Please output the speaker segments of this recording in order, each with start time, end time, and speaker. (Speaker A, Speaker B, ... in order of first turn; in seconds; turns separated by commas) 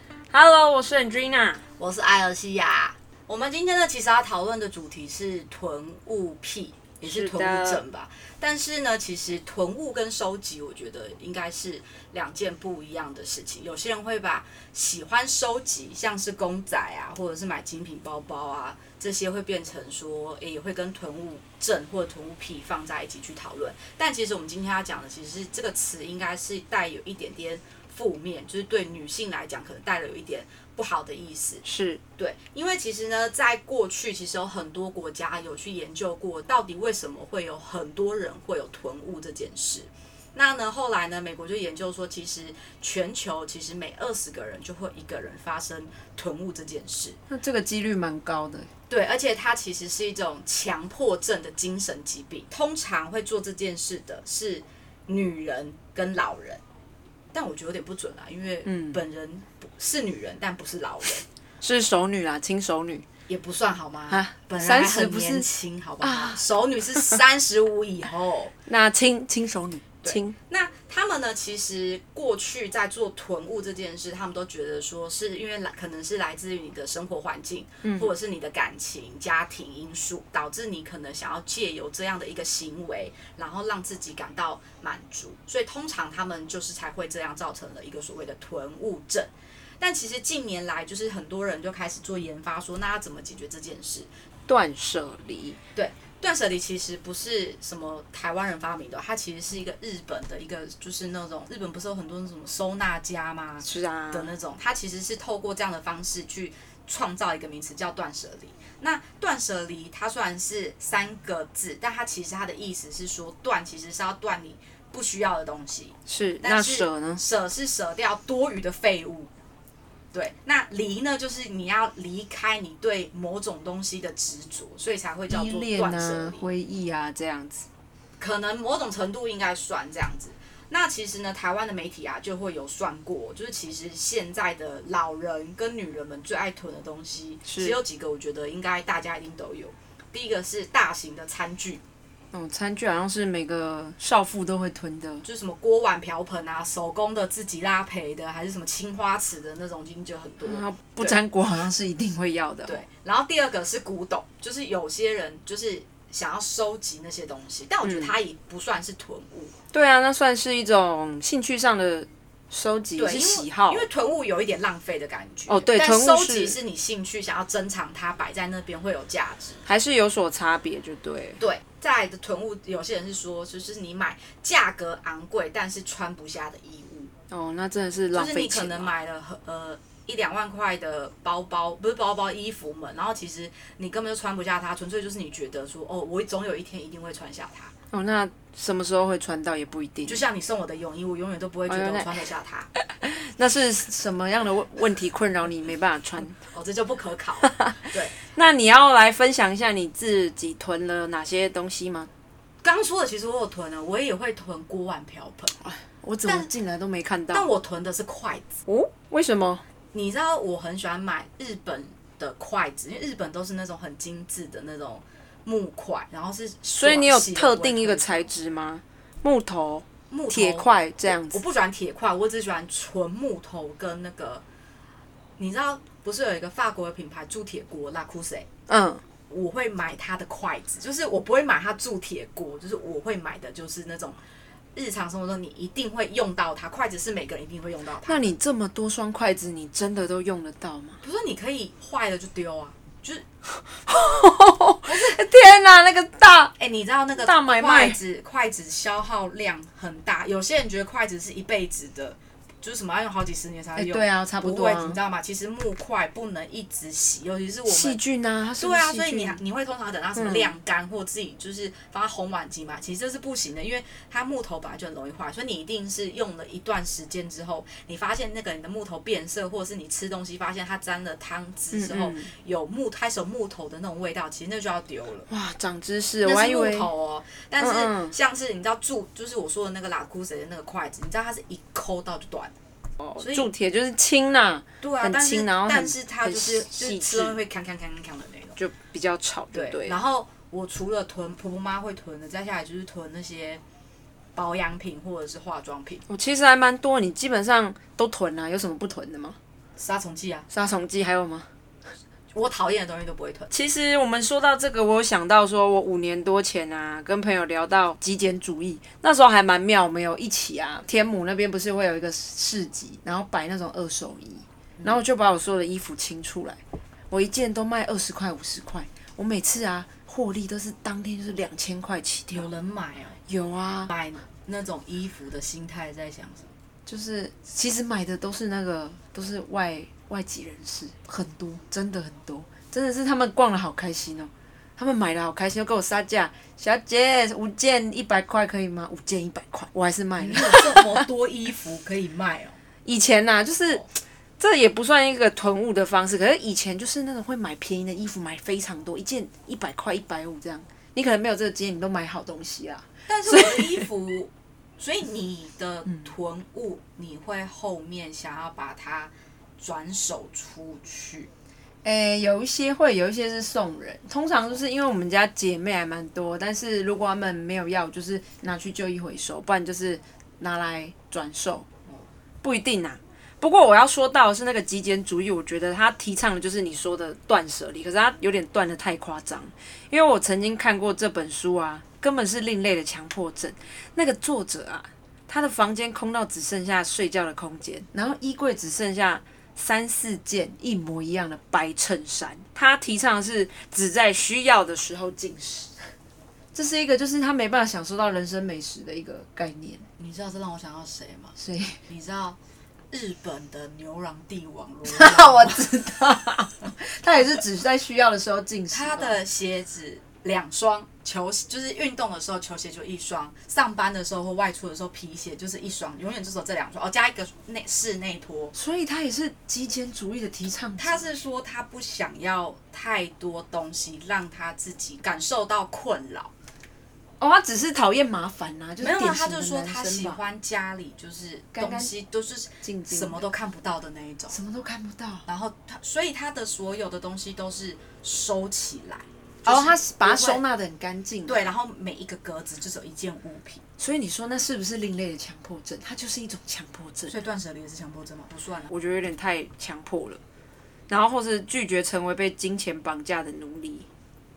Speaker A: 0.3-1.6, Speaker B: 1.8-31.6, Speaker A: 7.0-7.8, Speaker A: 31.6-32.0, Speaker B: 32.2-47.2, Speaker A: 47.3-48.7, Speaker B: 48.9-56.6, Speaker B: 57.3-61.2, Speaker A: 58.6-59.0, Speaker A: 61.6-63.0, Speaker B: 63.3-68.5, Speaker A: 64.1-65.5, Speaker A: 66.0-66.4, Speaker A: 68.7-70.3, Speaker B: 70.0-94.1, Speaker A: 77.8-78.1, Speaker A: 94.5-95.6, Speaker B: 95.7-119.3, Speaker A: 103.6-104.4, Speaker A: 116.1-117.2, Speaker B: 120.1-126.5, Speaker A: 125.3-127.7, Speaker B: 128.2-141.8, Speaker A: 137.5-137.8, Speaker A: 142.3-145.2, Speaker B: 145.2-151.2, Speaker A: 150.4-152.8, Speaker B: 152.7-159.5, Speaker A: 157.8-158.1, Speaker A: 159.7-163.8, Speaker B: 163.0-169.6, Speaker A: 165.5-166.6, Speaker A: 169.7-171.4, Speaker B: 171.4-177.1, Speaker A: 177.3-178.9, Speaker B: 178.1-187.7, Speaker A: 187.9-190.2, Speaker B: 190.1-192.7, Speaker A: 191.7-192.2, Speaker A: 192.8-196.4, Speaker B: 196.5-198.2, Speaker A: 197.4-202.1, Speaker B: 202.6-205.5, Speaker A: 205.6-207.5, Speaker B: 206.2-206.5, Speaker B: 207.3-208.6, Speaker A: 208.7-209.6, Speaker B: 209.9-218.3, Speaker A: 216.8-221.4, Speaker B: 220.1-224.4, Speaker B: 225.4-228.5, Speaker A: 228.7-229.0, Speaker B: 229.3-234.2, Speaker B: 234.7-238.2, Speaker A: 238.0-241.0, Speaker B: 241.0-243.2, Speaker A: 243.5-246.5, Speaker B: 244.9-245.2, Speaker B: 246.6-258.0, Speaker A: 247.2-248.0, Speaker A: 253.8-255.0, Speaker A: 257.6-259.4, Speaker B: 258.6-275.3, Speaker A: 260.1-260.5, Speaker A: 271.7-272.3, Speaker A: 275.3-276.9, Speaker B: 276.2-282.5, Speaker A: 277.6-278.1, Speaker A: 283.0-287.4, Speaker B: 283.2-283.5, Speaker B: 284.8-288.6, Speaker A: 288.6-290.0, Speaker B: 289.5-293.6, Speaker B: 294.4-296.0, Speaker A: 296.1-299.4, Speaker B: 299.8-300.5, Speaker A: 300.5-301.5, Speaker B: 302.3-303.5, Speaker A: 303.5-322.5, Speaker B: 322.3-323.2, Speaker A: 323.3-323.9, Speaker B: 323.9-326.5, Speaker A: 326.9-341.1, Speaker B: 340.2-342.6, Speaker A: 342.8-353.9, Speaker B: 353.1-361.3, Speaker A: 361.8-371.6, Speaker A: 372.4-395.9, Speaker A: 396.5-399.9, Speaker B: 400.0-402.4, Speaker A: 401.4-401.8, Speaker B: 402.9-405.7, Speaker A: 404.8-409.1, Speaker B: 408.7-418.5, Speaker A: 418.5-421.1, Speaker B: 420.8-426.3, Speaker A: 427.2-430.2, Speaker B: 428.8-434.4, Speaker A: 431.5-431.9, Speaker A: 432.6-433.2, Speaker A: 434.3-435.2, Speaker B: 435.2-440.4, Speaker A: 439.4-441.5, Speaker B: 441.2-443.6, Speaker A: 443.8-447.1, Speaker B: 447.1-448.7, Speaker A: 448.7-450.2, Speaker A: 450.9-453.9